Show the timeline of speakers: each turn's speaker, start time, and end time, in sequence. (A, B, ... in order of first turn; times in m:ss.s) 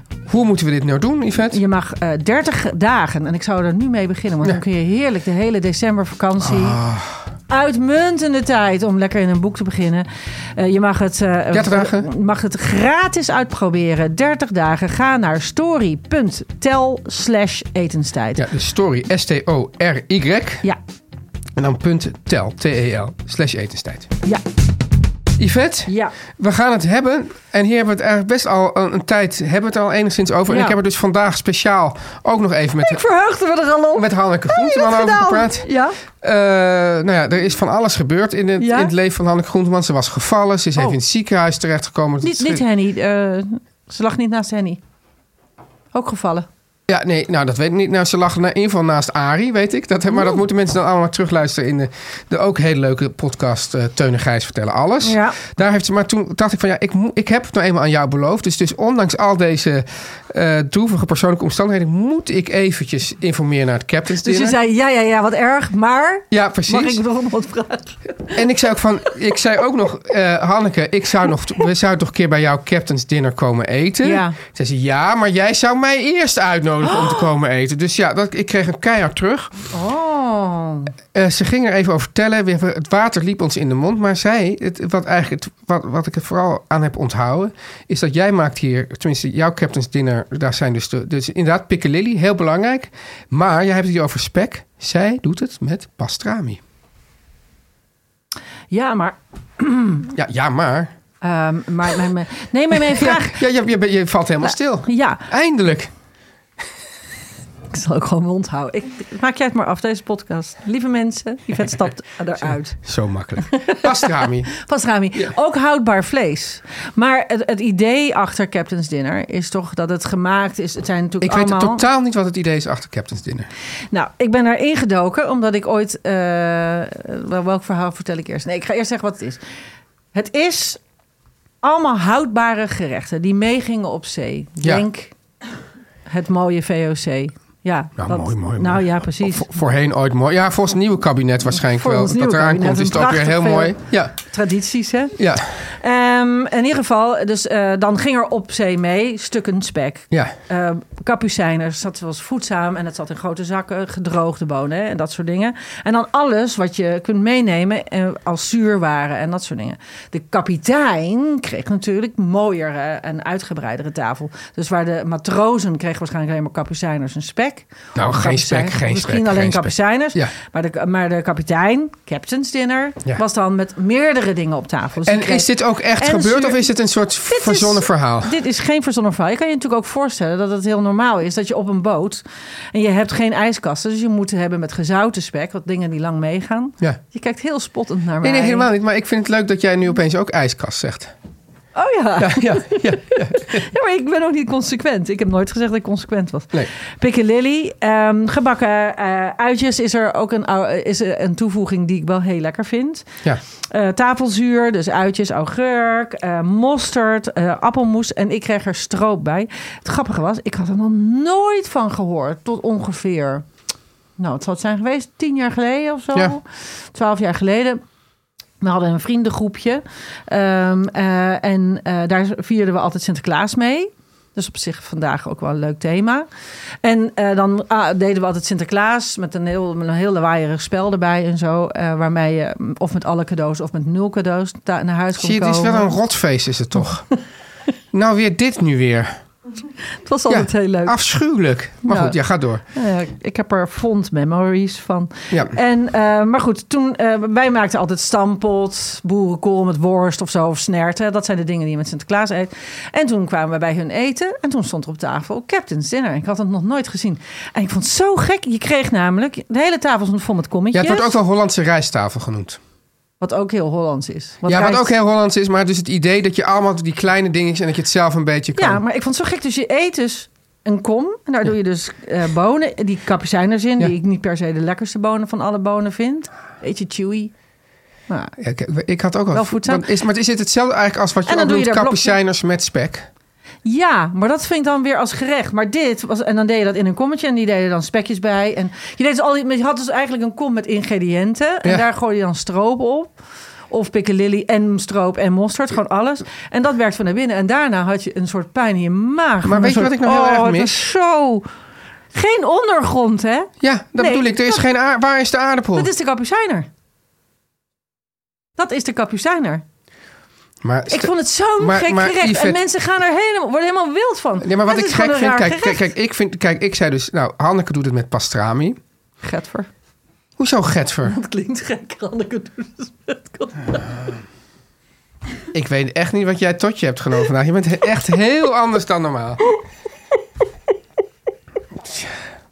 0:00.3-0:01.6 A
0:01.5-0:06.8 B
0:06.4-0:07.2 A
0:07.5-0:18.4 B
0:11.5-0:12.1 A
0:18.4-0:20.7 A
0:21.6-0:24.1 A
0:25.4-0:33.0 A
0:25.9-0:26.1 B
0:30.5-0:30.8 B
0:32.8-0:36.0 B
0:34.0-0:35.7 A
0:36.2-0:42.6 A
0:38.6-0:38.9 B
0:42.2-0:44.8 B
0:45.9-0:46.5 B
0:46.9-1:04.6 A
0:50.1-0:50.4 B
0:55.0-0:55.4 B
1:04.2-1:08.4 B
1:06.3-1:07.0 A
1:08.4-1:19.6 A
1:14.0-1:14.4 B
1:16.9-1:17.1 B
1:19.7-1:20.9 B
1:21.1-1:36.6 A
1:38.7-1:40.1 B
1:40.1-1:40.9 A
1:41.2-1:43.4 B
1:42.8-1:45.9 A
1:44.5-1:45.2 B
1:47.7-1:52.8 B
1:52.8-1:54.5 A
1:53.5-2:01.8 B
2:01.2-2:03.5 A
2:03.9-2:09.4 B
2:10.1-2:10.8 B
2:11.6-2:15.1 B
2:14.6-2:14.8 A
2:16.1-2:19.5 B
2:18.0-2:24.1 A
2:21.6-2:25.2 B
2:25.2-2:25.4 A
2:25.7-2:56.7 B
2:48.0-2:50.3 A
2:55.1-2:58.3 A
2:57.3-3:08.7 B
3:08.2-3:11.1 A
3:11.8-3:23.1 B
3:12.2-3:13.7 A
3:23.7-3:33.4 B
3:34.2-3:37.8 B
3:38.6-3:46.3 B
3:46.8-3:56.0 B
3:55.2-3:57.1 A
3:57.9-3:59.2 A
4:00.0-4:01.0 B
4:00.3-4:02.6 A
4:01.8-4:02.2 B
4:02.7-4:21.1 B
4:20.7-4:22.6 A
4:23.2-4:24.9 B
4:24.5-4:28.8 A
4:28.6-4:37.3 B
4:38.1-4:38.4 B
4:38.4-4:43.1 A
4:39.3-4:39.8 B
4:41.3-4:42.2 B
4:43.6-4:53.1 B
4:53.7-5:01.5 B
4:59.4-5:00.8 A
5:02.1-5:04.6 B
5:03.6-5:05.9 A
5:05.7-5:06.7 B
5:08.6-5:09.6 B
5:10.6-5:12.6 A
5:10.9-5:15.9 B
5:14.4-5:18.8 A
5:19.2-5:19.7 B
5:20.4-5:21.2 A
5:21.0-5:23.9 B
5:25.5-5:29.4 A